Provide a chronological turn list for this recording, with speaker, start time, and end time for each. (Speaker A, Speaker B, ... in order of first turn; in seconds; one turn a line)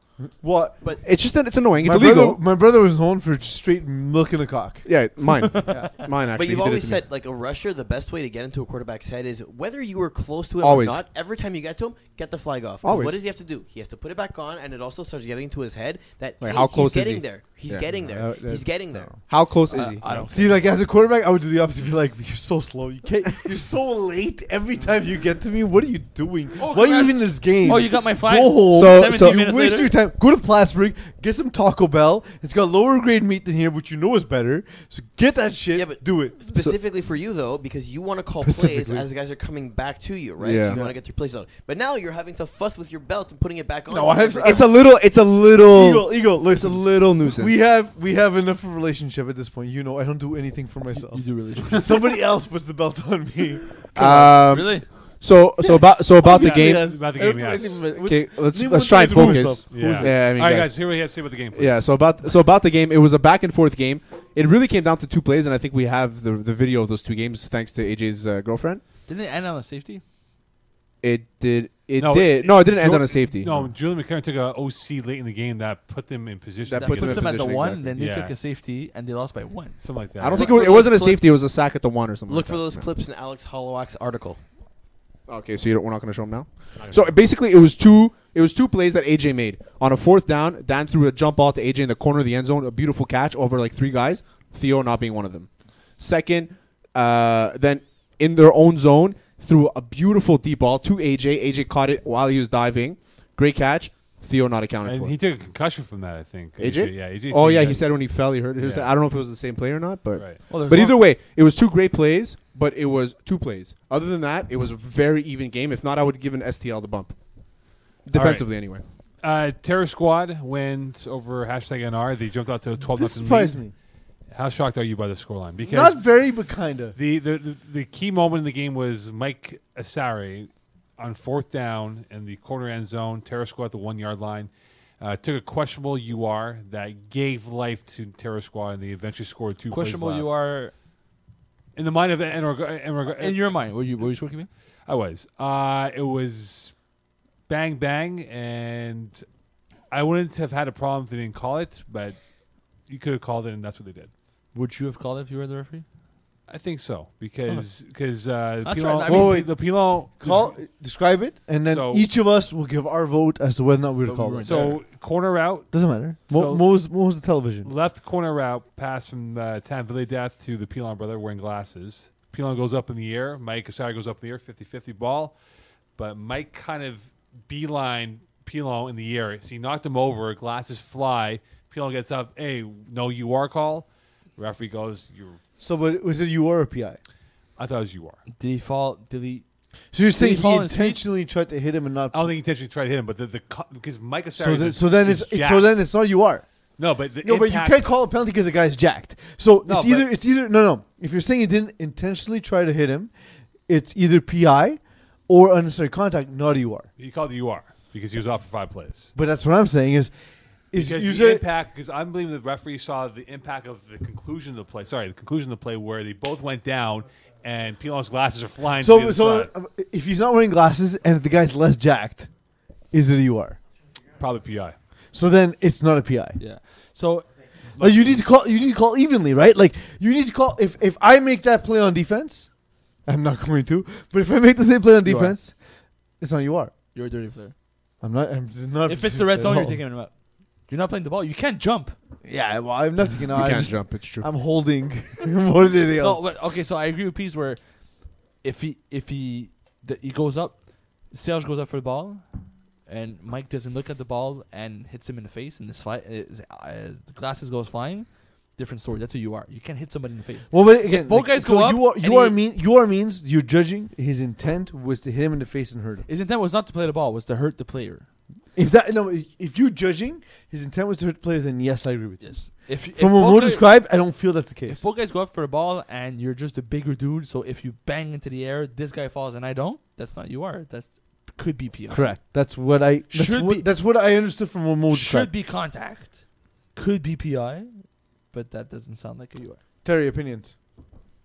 Speaker A: 0.2-0.9
Speaker B: 1.0-2.4
Speaker A: 1.8-5.0
Speaker B: 4.8-7.0
Speaker C: 5.5-5.9
Speaker A: 5.7-5.9
Speaker D: 6.3-19.1
Speaker B: 10.6-11.0
Speaker B: 12.8-13.2
Speaker B: 16.4-17.9
Speaker A: 18.0-19.2
Speaker B: 19.3-20.3
Speaker C: 19.7-20.6
Speaker A: 20.0-36.4
Speaker C: 26.6-29.9
Speaker B: 28.7-29.4
Speaker D: 35.7-44.7
Speaker A: 38.4-39.0
Speaker B: 40.4-40.8
Speaker A: 40.7-41.0
Speaker A: 43.9-44.9
Speaker B: 44.4-47.5
Speaker A: 45.6-54.6
Speaker C: 51.0-51.9
Speaker B: 53.9-57.1
Speaker C: 54.4-54.9
Speaker A: 55.6-60.1
Speaker E: 56.4-57.9
Speaker B: 58.0-68.8
Speaker E: 59.7-61.9
Speaker C: 69.1-70.0
Speaker B: 71.0-73.7
Speaker E: 72.0-78.3
Speaker B: 76.6-77.9
Speaker C: 76.7-79.8
Speaker E: 79.8-80.5
Speaker B: 80.2-82.9
Speaker D: 80.3-81.3
Speaker D: 82.3-84.4
Speaker B: 85.3-105.2
Speaker E: 104.8-108.9
Speaker B: 106.6-117.1
Speaker C: 110.5-111.0
Speaker B: 118.0-118.8
Speaker E: 118.1-118.5
Speaker E: 119.2-123.6
Speaker A: 122.9-123.7
Speaker E: 124.3-126.2
Speaker A: 125.7-127.0
Speaker E: 126.9-140.3
Speaker C: 139.7-140.7
Speaker E: 141.8-143.5
Speaker C: 143.0-144.5
Speaker E: 144.8-146.7
Speaker E: 147.5-149.2
Speaker E: 149.9-152.2
Speaker E: 152.9-154.1
Speaker C: 154.5-155.8
Speaker E: 156.5-160.6
Speaker C: 158.6-159.4
Speaker A: 159.1-164.7
Speaker E: 161.6-162.1
Speaker C: 164.0-164.8
Speaker E: 164.4-166.6
Speaker A: 165.7-167.7
Speaker E: 167.6-175.3
Speaker E: 175.9-185.4
Speaker A: 185.6-187.0
Speaker E: 187.6-188.2
Speaker C: 188.3-189.4
Speaker A: 189.9-192.3
Speaker C: 190.2-191.0
Speaker E: 192.1-195.8
Speaker A: 194.4-196.4
Speaker E: 196.8-197.8
Speaker A: 197.2-203.1
Speaker E: 199.6-200.1
Speaker A: 203.7-206.9
Speaker E: 207.0-209.1
Speaker A: 209.1-210.1
Speaker A: 210.7-211.4
Speaker E: 210.7-219.5
Speaker A: 218.8-222.3
Speaker A: 222.9-223.6
Speaker E: 224.2-224.8
Speaker A: 225.1-226.4
Speaker C: 226.4-227.3
Speaker E: 227.8-228.2
Speaker A: 227.8-232.5
Speaker A: 233.1-235.6
Speaker C: 235.0-235.3
Speaker A: 236.2-236.7
Speaker C: 236.9-237.5
Speaker A: 238.0-239.8
Speaker C: 238.8-240.1
Speaker C: 240.7-241.9
Speaker A: 242.2-246.2
Speaker B: 243.2-244.3
Speaker C: 246.0-247.6
Speaker C: 248.4-252.2
Speaker C: 252.8-262.4
Speaker A: 260.5-266.1
Speaker C: 266.1-268.0
Speaker A: 268.5-274.8
Speaker C: 272.2-273.7
Speaker C: 274.7-282.2
Speaker A: 281.9-285.3
Speaker C: 283.1-283.7
Speaker C: 284.9-286.2
Speaker C: 286.7-289.6
Speaker A: 289.8-290.5